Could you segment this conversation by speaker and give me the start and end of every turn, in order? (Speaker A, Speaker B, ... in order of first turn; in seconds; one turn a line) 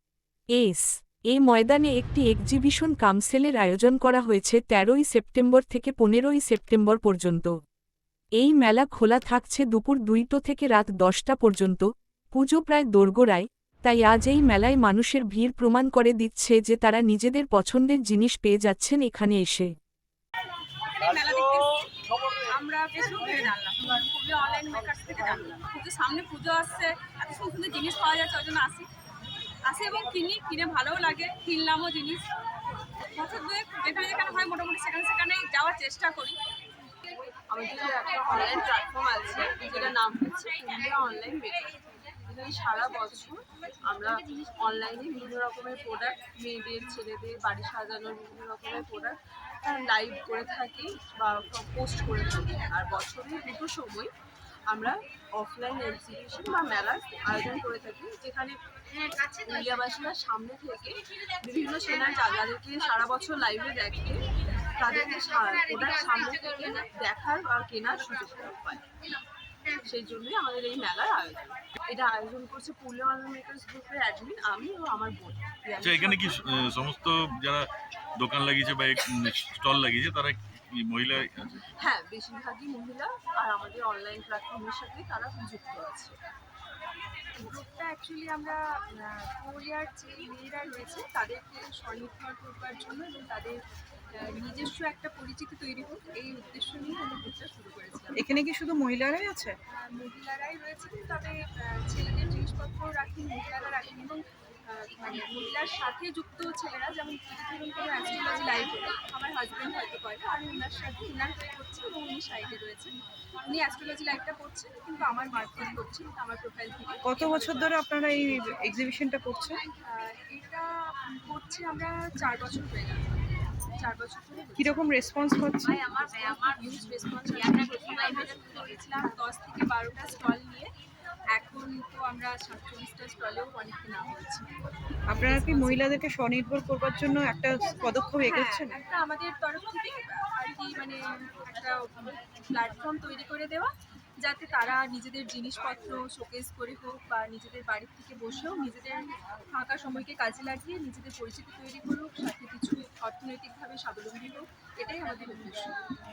Speaker A: 0.6-7.5
Speaker A: 8.4-19.7
Speaker B: 21.0-21.9
Speaker B: 22.4-28.9
Speaker B: 29.7-32.2
Speaker B: 33.1-36.4
Speaker C: 37.5-41.7
Speaker C: 42.3-54.1
Speaker C: 54.7-58.5
Speaker C: 59.3-68.8
Speaker C: 69.8-76.3
Speaker D: 75.8-77.7
Speaker D: 78.2-81.6
Speaker C: 81.8-86.2
Speaker B: 87.4-93.6
Speaker B: 94.2-98.2
Speaker E: 98.2-99.5
Speaker B: 99.7-112.9
Speaker B: 113.5-118.5
Speaker E: 117.0-119.6
Speaker B: 119.8-125.1
Speaker E: 124.6-125.8
Speaker B: 125.7-130.7
Speaker B: 131.3-134.5
Speaker E: 135.1-138.7
Speaker B: 135.2-135.9
Speaker B: 138.2-155.8